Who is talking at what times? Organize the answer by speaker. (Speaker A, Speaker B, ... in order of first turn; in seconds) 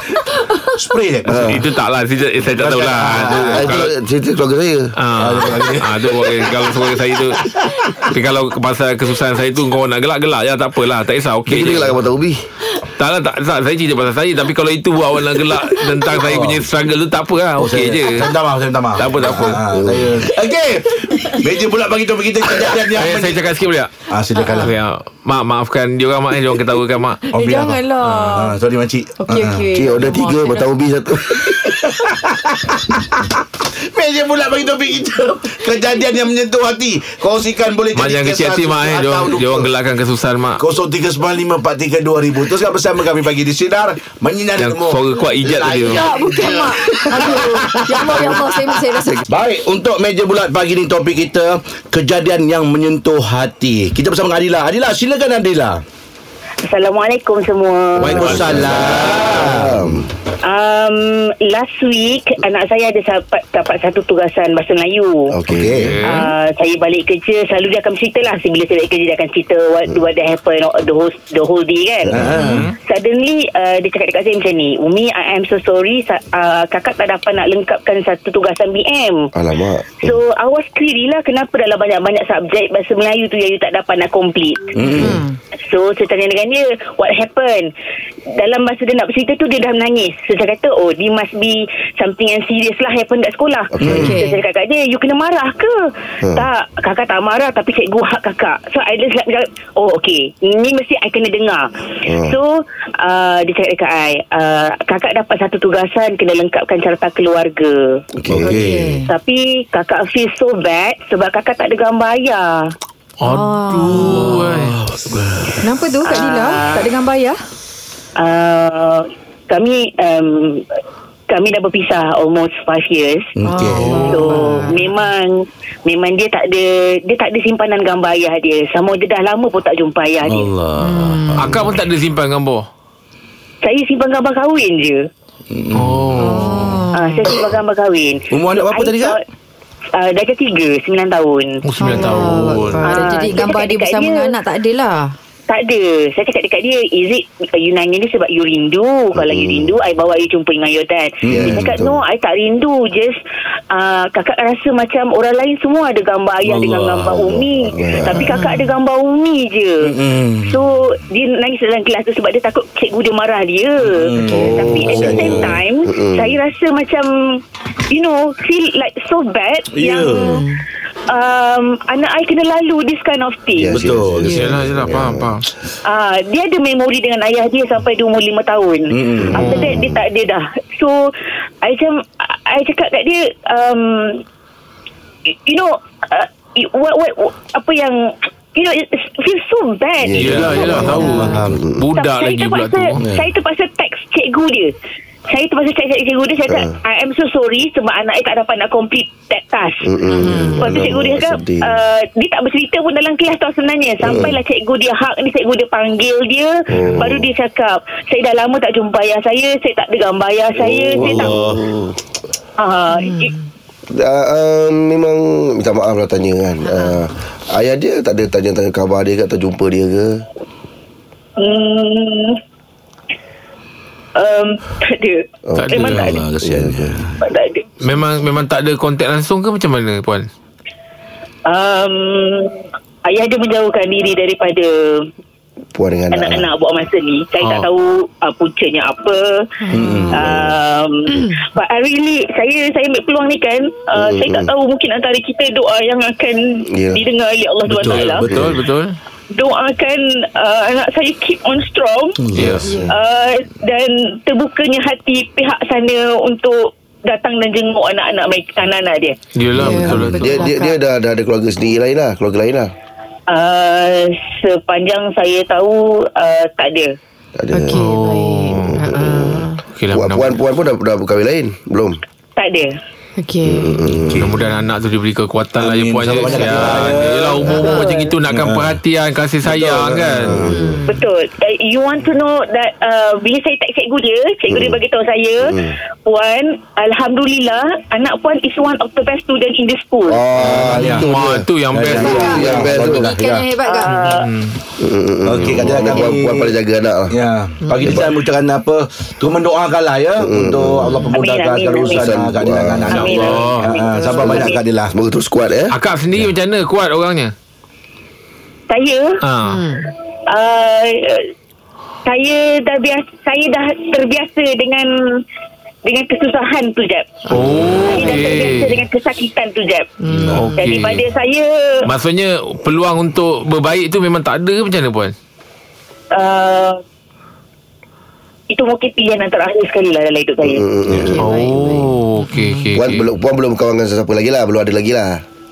Speaker A: 0.6-1.5, 2.5-3.8, 5.2-8.1, 11.5-11.9, 16.1-16.6, 17.6-23.4, 24.1-24.7, 27.3-29.7, 31.4-39.7, 40.6-55.8, 58.0-60.1, 65.5-66.0, 72.1-72.7, 84.8-85.2, 93.8-94.2, 108.2-109.0, 113.9-115.7, 123.4-124.1, 130.3-131.7, 135.5-136.4, 138.3-139.2, 151.2-151.7, 156.4-157.3, 159.8-160.6, 163.8-165.6, 169.7-170.4, 173.7-174.5, 178.9-179.6, 190.3-191.7, 193.0-193.3, 200.3-200.6, 204.0-204.3, 211.0-211.6, 225.7-227.2, 239.7-240.3, 247.7-248.6, 252.2-252.8, 259.5-260.1, 273.9-274.4, 275.6-277.8, 278.3-278.8, 279.4-280.5, 290.4-291.1, 291.7-293.5, 295.3-296.5, 297.1-304.9, 317.3-317.9, 320.1-320.5, 330.9-331.1
Speaker B: 1.3-1.6, 3.3-4.9, 11.5-12.4, 19.4-20.3, 29.7-31.9, 58.0-60.1, 65.3-65.9, 72.1-72.4, 79.3-80.2, 93.7-94.2, 102.1-102.4, 108.3-108.6, 149.2-149.7, 151.3-152.0, 157.2-158.3, 164.3-166.4, 173.5-175.3, 179.2-180.0, 190.0-191.8, 196.5-196.8, 199.8-201.7, 204.0-204.4, 206.7-207.3, 210.6-212.0, 213.9-220.2, 225.5-227.0, 235.7-236.5, 240.1-240.6, 244.0-244.5, 246.7-247.0, 248.3-248.6, 259.7-262.7, 267.4-267.9, 268.5-272.0, 273.4-274.4, 280.2-280.8, 284.5-284.8, 285.5-285.8, 290.1-293.1, 294.8-297.2, 297.8-298.1, 300.2-301.0, 301.9-303.3, 304.1-305.8, 330.4-331.2, 332.7-335.2
Speaker C: 1.3-3.9, 5.0-7.4, 8.1-11.9, 13.0-18.3, 19.0-19.6, 22.9-27.3, 38.0-40.6, 44.6-46.1, 65.8-66.3, 72.4-72.7, 113.2-114.8, 123.7-124.3, 131.4-132.7, 135.7-136.8, 141.7-142.9, 174.3-175.4, 190.2-193.0, 225.6-226.0, 227.8-230.3, 237.4-237.7, 247.8-248.9, 252.3-252.7, 259.4-260.5, 267.7-268.8, 269.8-270.3, 274.2-280.4, 290.7-292.8, 294.0-294.6, 303.1-303.7, 305.7-307.3, 309.2-309.6, 317.3-318.8, 320.3-321.0, 321.9-325.1, 331.2-333.1
Speaker D: 24.4-24.7, 27.3-28.6, 29.2-30.7, 45.9-49.2, 84.9-85.4, 94.0-94.4, 108.4-109.1, 113.3-114.4, 115.6-117.4, 123.5-124.9, 130.8-131.5, 136.2-137.3, 141.8-145.1, 158.3-158.7, 170.1-170.6, 174.2-174.5, 190.7-191.4, 200.1-200.6, 212.9-213.4, 216.7-217.0, 239.6-240.2, 241.1-241.4, 259.6-260.8, 267.5-269.6, 273.2-273.8, 277.5-278.0, 280.5-281.0, 291.9-294.1, 300.9-301.1, 303.9-304.2, 309.4-309.9, 320.0-320.5, 331.1-332.7
Speaker E: 56.7-58.5, 60.4-65.4, 66.0-72.2, 72.8-79.3, 80.0-84.9, 85.5-87.7, 88.3-95.8, 96.3-108.0, 109.0-112.7, 116.0-116.9, 118.2-120.7, 121.3-123.3, 124.0-130.5, 133.6-135.0, 136.9-139.2, 139.9-141.6, 142.8-144.3, 145.5-153.2, 153.7-167.1, 167.9-170.4, 171.1-173.8, 175.8-181.1, 181.6-184.2, 185.3-191.1, 191.9-194.7, 195.3-199.9, 200.6-211.4, 212.6-213.3, 221.4-222.4, 224.2-226.2, 227.2-227.7, 231.5-235.1, 236.1-239.5, 240.1-248.3, 249.3-252.2, 252.9-259.2, 263.3-266.9, 272.4-272.8, 280.9-290.3, 293.6-294.3, 301.1-302.2, 302.9-304.6, 308.7-309.2, 310.3-311.3, 312.1-314.9, 315.9-317.3, 317.8-319.9, 320.5-321.9, 326.1-326.8, 328.5-330.7